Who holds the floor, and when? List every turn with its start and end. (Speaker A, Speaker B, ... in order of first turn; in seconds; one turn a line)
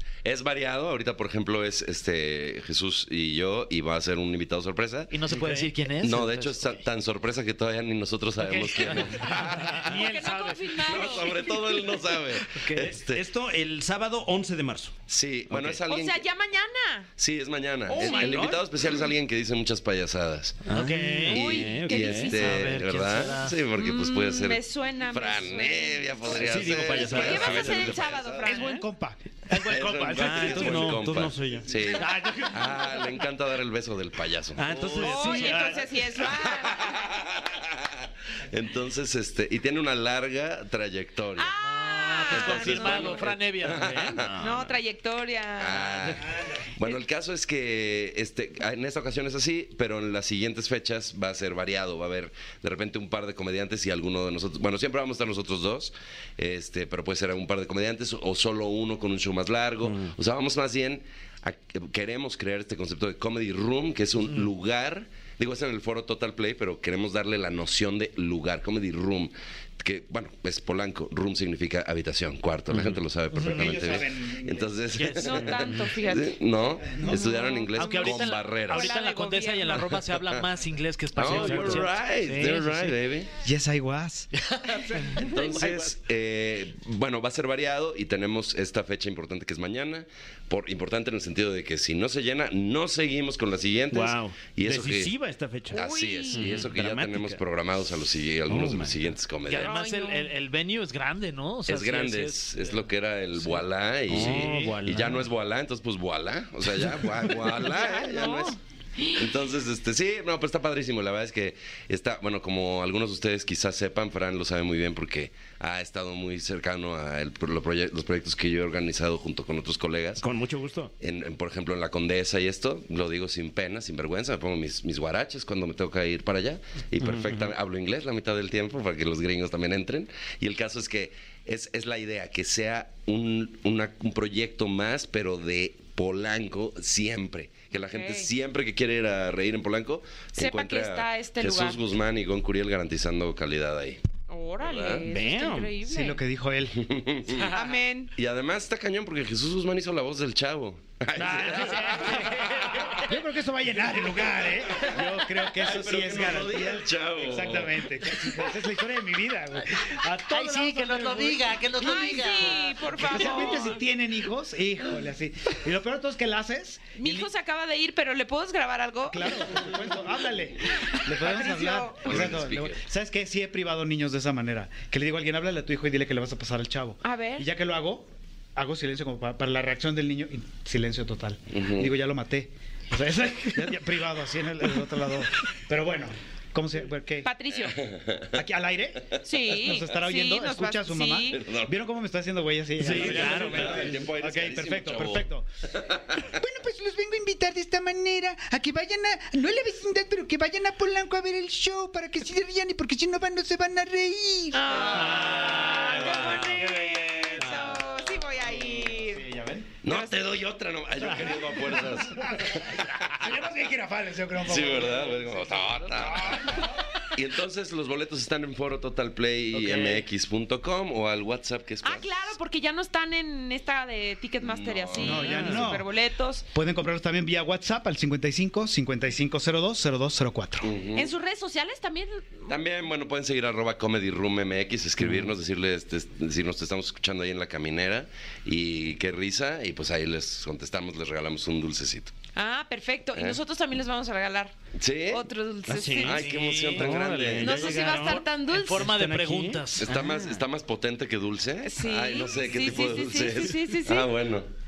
Speaker A: 0.2-5.1
Speaker B: 5.1-6.8
Speaker C: 5.3-5.7
Speaker A: 6.0-10.1
Speaker B: 8.4-11.3
Speaker D: 9.9-11.5
Speaker A: 10.8-13.2
Speaker B: 12.5-13.0
Speaker C: 12.9-14.9
Speaker A: 15.1-16.2
Speaker C: 15.5-15.8
Speaker D: 15.9-17.1
Speaker A: 17.2-20.6
Speaker D: 17.9-18.5
Speaker C: 18.0-18.5
Speaker B: 18.0-18.5
Speaker C: 20.7-22.8
Speaker B: 20.7-21.8
Speaker D: 21.3-22.6
Speaker A: 21.5-28.5
Speaker B: 22.4-23.6
Speaker D: 23.8-28.8
Speaker C: 26.3-28.1
Speaker E: 28.4-29.9
Speaker B: 29.5-31.0
Speaker A: 29.6-34.6
Speaker C: 30.1-32.1
Speaker B: 32.0-32.6
Speaker C: 34.6-35.9
Speaker B: 34.6-35.8
Speaker D: 35.0-37.0
Speaker A: 36.2-41.5
Speaker D: 41.4-43.2
Speaker B: 41.6-44.1
Speaker A: 42.2-44.3
Speaker C: 43.6-44.7
Speaker D: 44.4-46.1
Speaker A: 45.6-78.9
Speaker C: 59.9-60.1
Speaker C: 72.7-73.0
Speaker B: 73.3-73.8
Speaker E: 73.4-74.7
Speaker B: 75.0-75.5
Speaker D: 75.1-76.4
Speaker E: 76.8-77.2
Speaker D: 77.1-79.8
Speaker B: 77.7-82.9
Speaker A: 80.0-80.4
Speaker A: 81.1-83.3
Speaker C: 81.3-81.8
Speaker E: 83.4-84.3
Speaker B: 84.3-85.9
Speaker A: 85.1-95.1
Speaker C: 93.9-97.4
Speaker D: 95.7-96.5
Speaker A: 95.7-99.8
Speaker C: 98.5-99.1
Speaker B: 99.5-102.8
Speaker D: 99.6-100.3
Speaker A: 101.7-108.6
Speaker C: 104.1-105.3
Speaker B: 104.1-104.8
Speaker D: 107.6-109.2
Speaker A: 109.1-120.2
Speaker C: 120.2-120.9
Speaker A: 121.0-144.0
Speaker C: 127.0-127.5
Speaker D: 137.8-138.3
Speaker D: 140.4-141.8
Speaker D: 144.3-146.2
Speaker A: 144.6-145.1
Speaker C: 145.1-145.7
Speaker E: 145.8-146.9
Speaker A: 146.8-147.5
Speaker D: 147.3-148.1
Speaker A: 148.2-153.1
Speaker B: 151.3-152.9
Speaker E: 153.0-162.0
Speaker A: 154.7-158.3
Speaker B: 160.3-163.3
Speaker D: 161.8-163.8
Speaker E: 162.8-167.3
Speaker D: 167.0-169.5
Speaker E: 169.1-187.3
Speaker D: 170.8-172.1
Speaker A: 172.0-172.8
Speaker D: 177.0-177.5
Speaker A: 181.5-181.9
Speaker D: 187.2-187.8
Speaker A: 187.8-188.4
Speaker E: 188.3-195.5
Speaker D: 189.2-191.4
Speaker A: 191.3-191.9
Speaker C: 192.8-193.9
Speaker A: 192.8-196.3
Speaker B: 193.0-193.8
Speaker E: 196.2-207.4
Speaker D: 204.5-209.3
Speaker C: 205.1-206.6
Speaker C: 207.4-207.8
Speaker E: 208.5-209.7
Speaker A: 209.8-213.1
Speaker D: 209.8-210.2
Speaker E: 211.0-216.8
Speaker A: 214.4-222.1
Speaker B: 219.6-220.0
Speaker D: 221.8-226.4
Speaker A: 224.4-225.4
Speaker E: 225.0-225.8
Speaker C: 225.1-225.8
Speaker E: 226.5-230.7
Speaker A: 230.6-231.1
Speaker D: 230.9-232.5
Speaker A: 232.5-242.1
Speaker C: 235.0-235.3
Speaker D: 242.3-244.5
Speaker A: 244.8-245.3
Speaker D: 245.1-246.2
Speaker C: 245.7-250.3
Speaker A: 246.0-247.9
Speaker B: 246.2-246.9
Speaker D: 247.4-248.9
Speaker B: 247.5-250.1
Speaker A: 249.8-254.5
Speaker D: 251.6-254.1